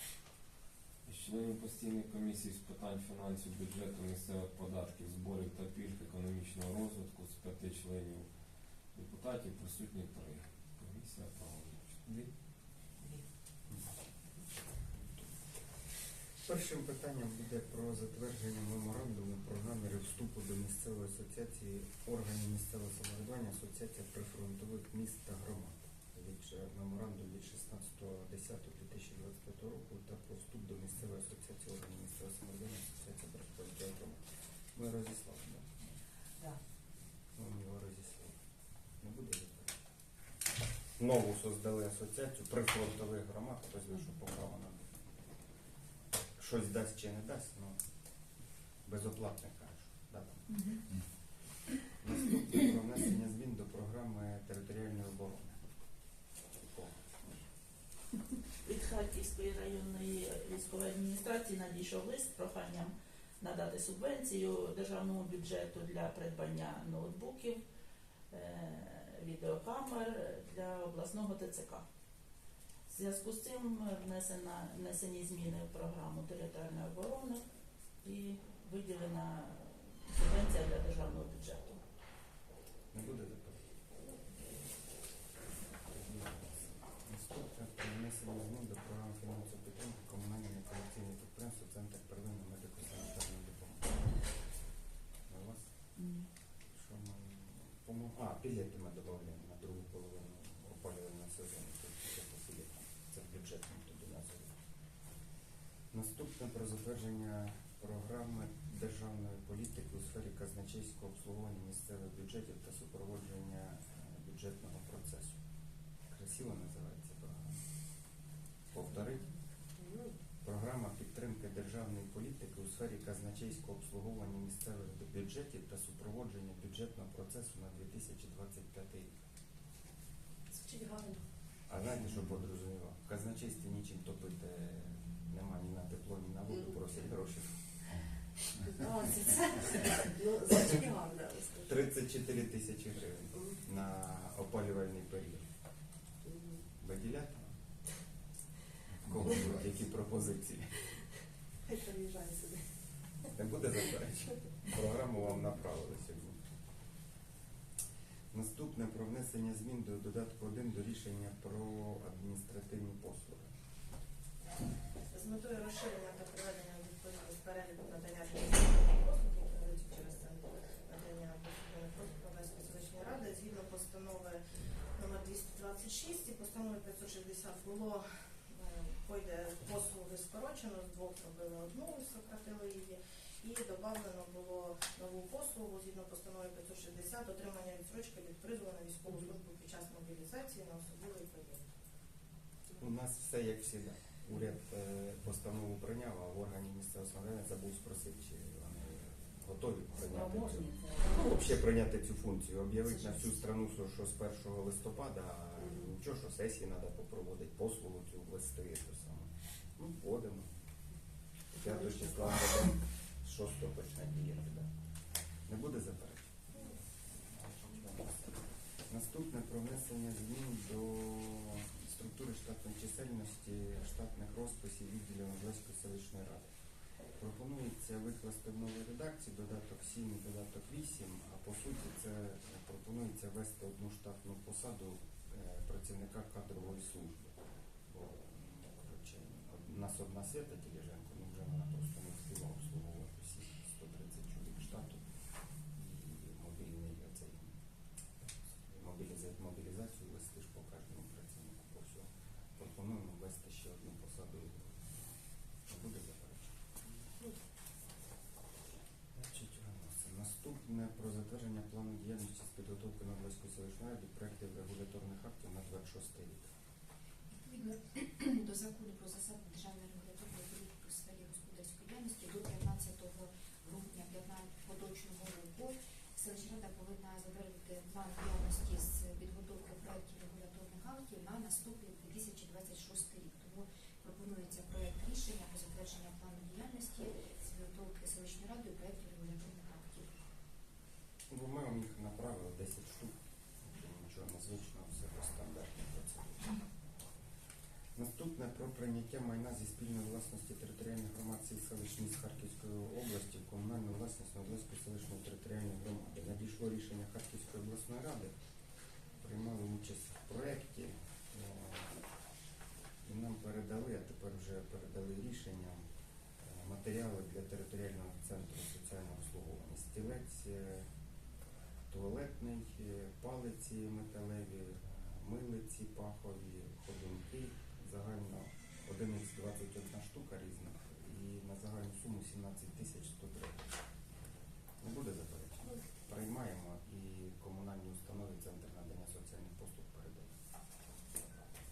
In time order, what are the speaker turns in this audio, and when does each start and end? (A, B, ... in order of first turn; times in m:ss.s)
0:01.0-0:12.3 A
0:13.7-0:14.1 B
0:14.7-0:15.3 B
0:16.4-0:35.7 B
0:37.4-0:38.4 B
0:39.0-0:39.8 B
0:41.0-0:45.1 B
0:46.4-0:47.8 B
0:48.8-0:51.0 B
0:51.8-0:55.7 B
0:56.5-0:57.3 B
0:58.6-1:07.6 C
1:08.3-1:11.8 C
1:12.9-1:17.4 C
1:18.0-1:21.8 C
1:22.9-1:23.6 B
1:25.8-1:34.4 B
1:35.3-1:35.7 B
1:36.0-1:36.2 C
1:36.7-1:44.6 B
1:45.9-1:55.4 B
1:56.1-1:57.6 B
1:58.7-1:59.3 B
1:59.8-2:00.1 D
2:00.4-2:09.2 B
2:10.5-2:11.2 D
2:11.7-2:18.1 B
2:18.8-2:19.4 D
2:20.0-2:21.7 D
2:21.6-2:25.5 B
2:26.2-2:26.6 D
2:26.7-2:27.5 B
2:29.0-2:30.9 B
2:31.7-2:32.7 D
2:33.3-2:36.4 B
2:38.3-2:43.5 B
2:45.1-2:54.4 E
2:54.9-3:11.7 E
3:12.7-3:30.5 B
3:31.5-3:34.7 B
3:35.4-3:46.5 B
3:47.2-3:57.3 B
3:57.9-4:05.0 B
4:05.7-4:07.6 B
4:08.5-4:15.1 B
4:15.7-4:16.6 B
4:19.1-4:26.5 B
4:27.3-4:50.1 F
4:51.3-4:56.6 B
4:57.9-5:08.3 B
5:09.2-5:11.9 B
5:13.0-5:15.8 B
5:16.4-5:20.9 B
5:21.9-5:33.8 B
5:34.8-5:40.3 B